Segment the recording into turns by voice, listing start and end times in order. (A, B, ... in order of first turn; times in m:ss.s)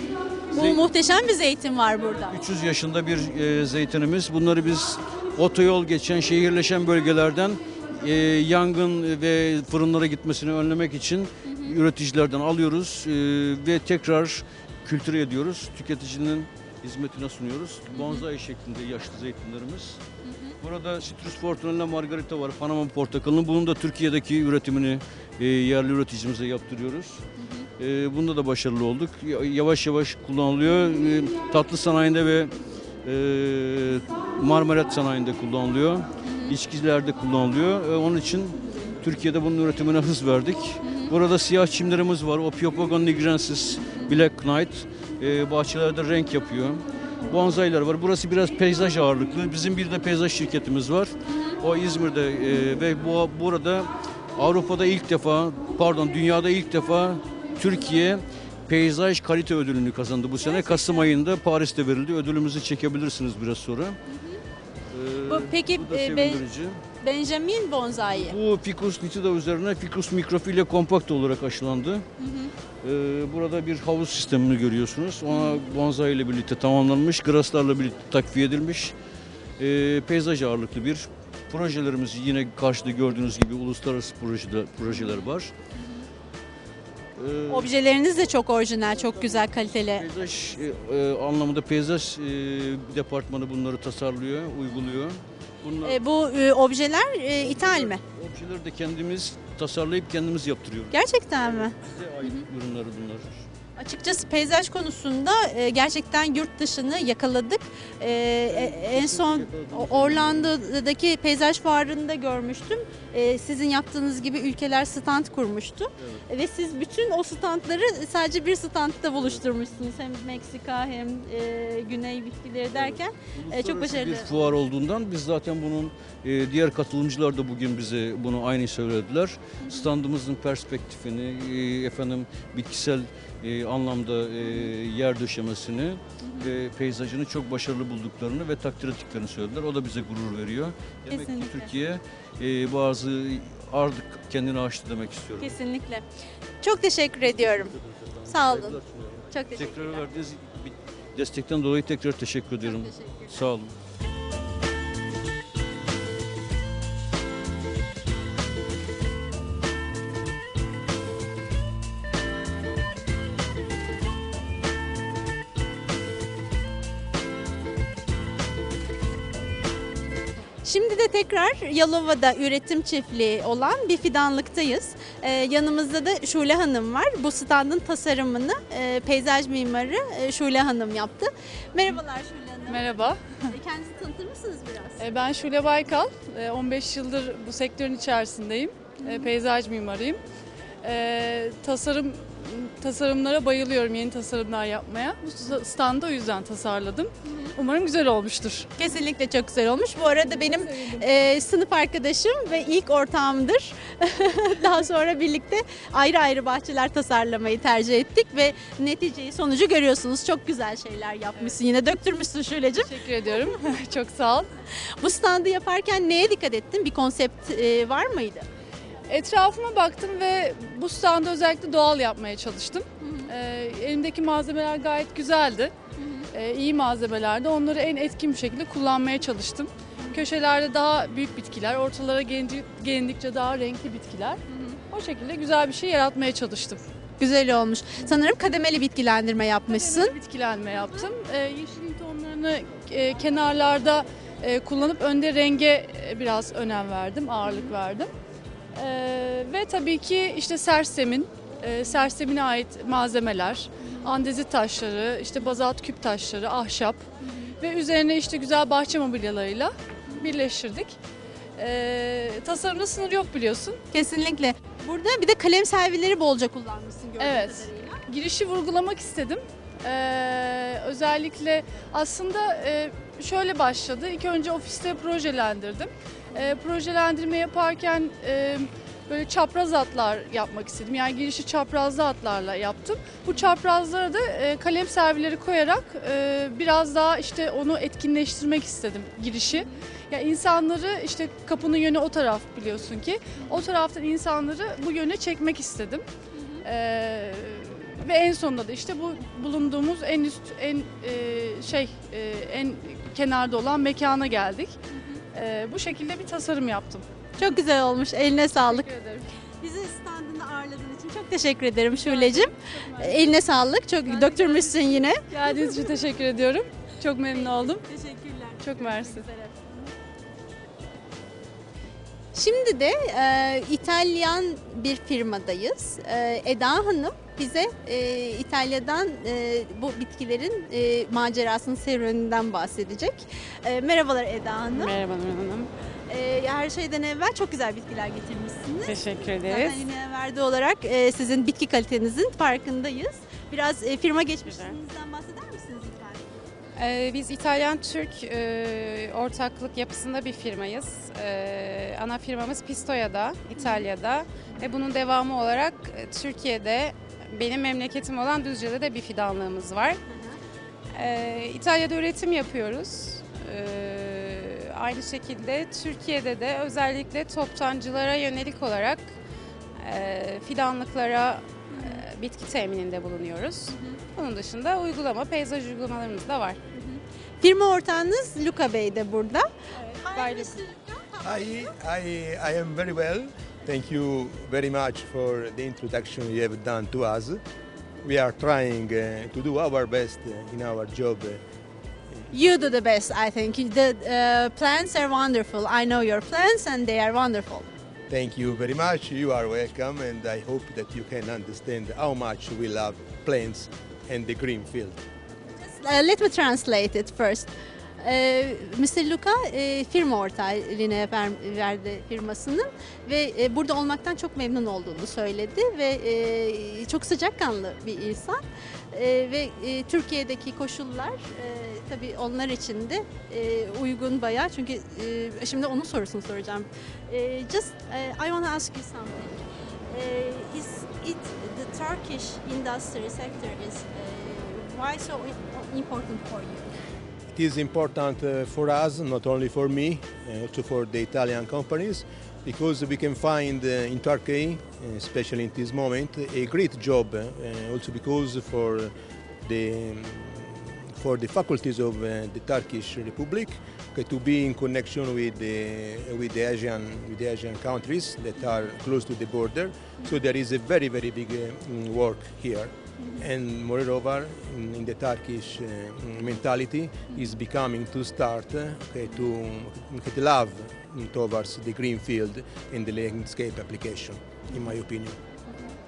0:00.5-0:00.8 A
0:00.5-0:02.4 B
0:02.2-0:20.0 A
0:11.4-0:11.7 B
0:17.9-0:18.2 B
0:20.2-0:20.6 B
0:20.6-0:27.2 A
0:27.4-0:27.7 B
0:27.8-0:32.5 A
0:33.0-1:04.0 A
0:36.2-0:36.6 B
0:40.8-0:41.1 B
0:51.3-0:51.6 B
1:00.4-1:01.1 B
1:04.1-1:04.4 B
1:04.9-1:06.8 A
1:05.3-1:06.4 B
1:07.0-1:08.4 B
1:08.2-1:12.1 A
1:12.2-1:12.5 B
1:12.8-1:18.9 A
1:15.3-1:15.6 B
1:19.6-1:25.5 A
1:24.9-1:25.3 B
1:27.2-1:27.7 A
1:27.5-1:30.1 B
1:28.9-1:36.0 A
1:35.8-1:38.0 B
1:37.4-1:43.4 A
1:40.9-1:42.4 B
1:43.8-2:04.6 B
1:48.5-1:50.5 A
1:56.0-1:56.2 A
2:02.7-2:25.6 A
2:14.4-2:14.7 B
2:16.2-2:16.5 B
2:21.1-2:21.7 B
2:25.4-2:26.1 B
2:26.6-2:27.8 B
2:27.4-2:33.7 A
2:28.3-2:28.8 B
2:29.3-2:30.1 B
2:32.6-2:33.5 B
2:50.6-3:05.0 B
3:02.7-3:03.3 C
3:05.0-3:10.2 C
3:09.0-3:09.3 B
3:10.8-3:18.7 C
3:17.2-3:17.5 B
3:18.8-3:33.3 B
3:20.4-3:21.1 C
3:32.8-3:34.5 C
3:35.0-3:38.5 B
3:39.1-3:45.7 C
3:43.0-3:43.3 B
3:46.0-3:46.3 B
3:46.3-3:56.8 C
3:54.5-3:54.8 B
3:57.2-4:00.2 B
3:59.7-4:08.1 C
4:08.8-4:17.1 C
4:17.6-4:21.0 C
4:21.6-4:23.8 C
4:23.9-4:28.0 B
4:27.2-4:56.0 C
4:56.3-4:56.6 B
4:56.6-5:04.8 C
5:04.9-5:05.2 B
5:05.3-5:07.0 C
5:07.4-5:08.9 B
5:08.6-5:09.3 C
5:09.6-5:16.1 B
5:11.9-5:13.4 C
5:14.0-5:17.8 C
5:17.3-5:19.9 B
5:18.6-5:19.3 C
5:22.3-5:35.0 B
5:34.7-5:35.7 D
5:36.1-5:46.2 B
5:38.8-5:39.9 D
5:44.5-5:44.8 D
5:46.8-6:00.0 D
5:53.6-5:53.9 B
6:00.1-6:00.4 B
6:01.0-6:09.1 D
6:09.8-6:16.6 D
6:11.7-6:12.0 B
6:13.7-6:14.0 B
6:16.7-6:21.7 B
6:20.1-6:20.6 D
6:21.2-6:27.4 E
6:28.0-6:31.4 E
6:32.3-6:37.7 B
6:38.1-6:45.0 E
6:45.6-7:16.7 B
7:17.3-7:55.2 E